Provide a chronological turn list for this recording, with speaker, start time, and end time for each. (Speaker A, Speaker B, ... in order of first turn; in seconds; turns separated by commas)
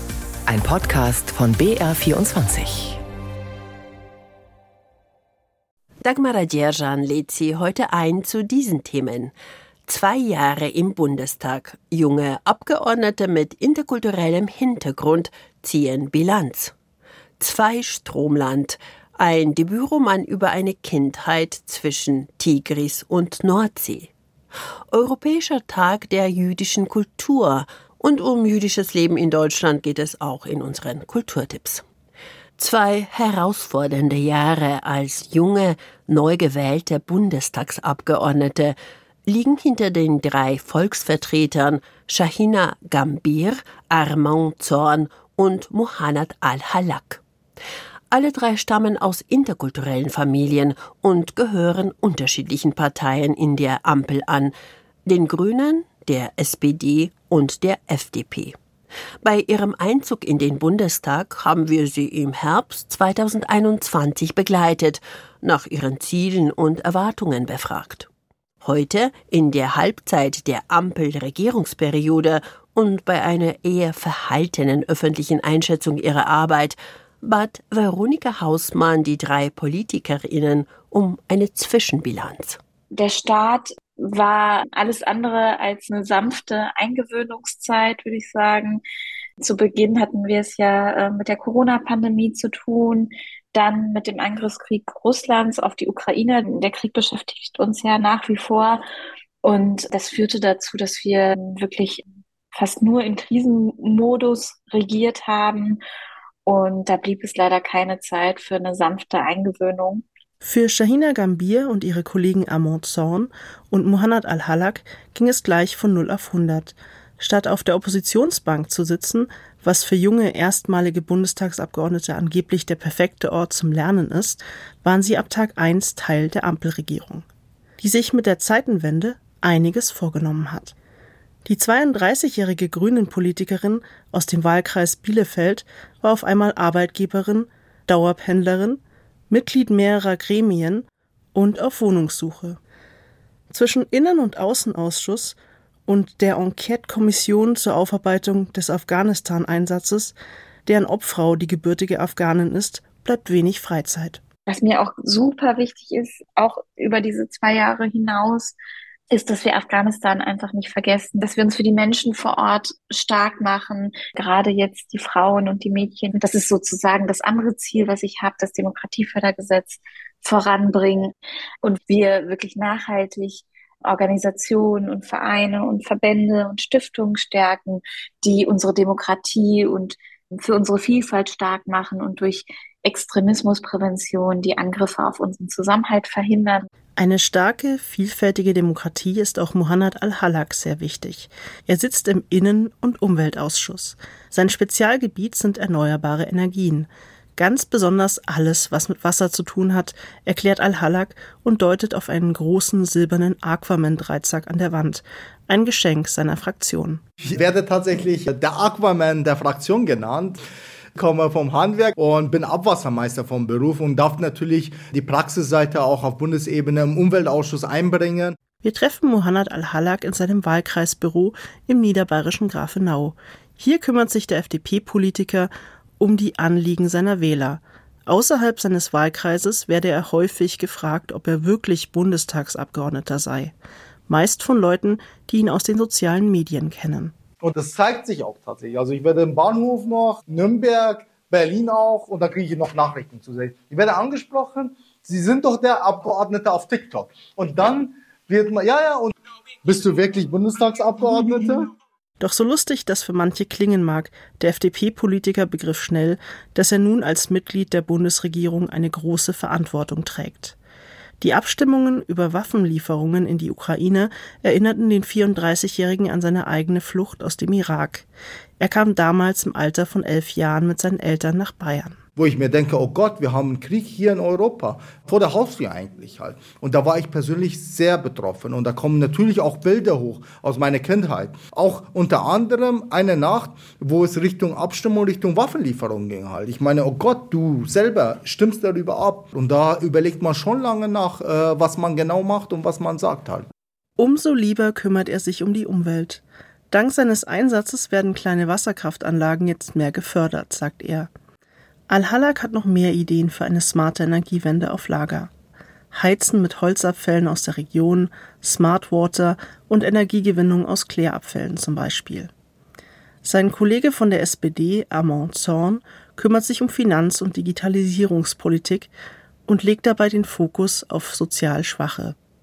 Speaker A: 0.5-3.0, Speaker B: 6.0-9.3, Speaker B: 9.9-16.7, Speaker B: 17.4-24.1, Speaker B: 24.9-31.8, Speaker B: 32.6-47.2, Speaker B: 48.1-54.5, Speaker B: 55.1-58.6, Speaker B: 59.2-68.1, Speaker B: 68.6-82.6, Speaker C: 82.9-88.8, Speaker C: 89.4-98.8, Speaker C: 99.4-105.8, Speaker C: 106.5-110.0, Speaker D: 110.4-127.2, Speaker D: 127.8-130.8, Speaker D: 131.4-142.6, Speaker D: 143.5-145.4, Speaker D: 145.9-150.2, Speaker D: 150.7-154.2, Speaker C: 154.5-158.6, Speaker C: 159.1-186.7, Speaker D: 187.0-207.0, Speaker E: 207.2-210.4, Speaker E: 210.9-218.4, Speaker D: 218.6-233.5, Speaker D: 234.1-237.1, Speaker E: 237.4-249.1, Speaker E: 249.6-251.7, Speaker D: 252.2-260.6, Speaker D: 261.2-268.1, Speaker D: 268.6-272.0, Speaker E: 272.2-293.5, Speaker D: 294.0-301.1, Speaker D: 301.9-305.3, Speaker D: 305.9-312.3, Speaker D: 313.2-318.9, Speaker D: 319.5-322.2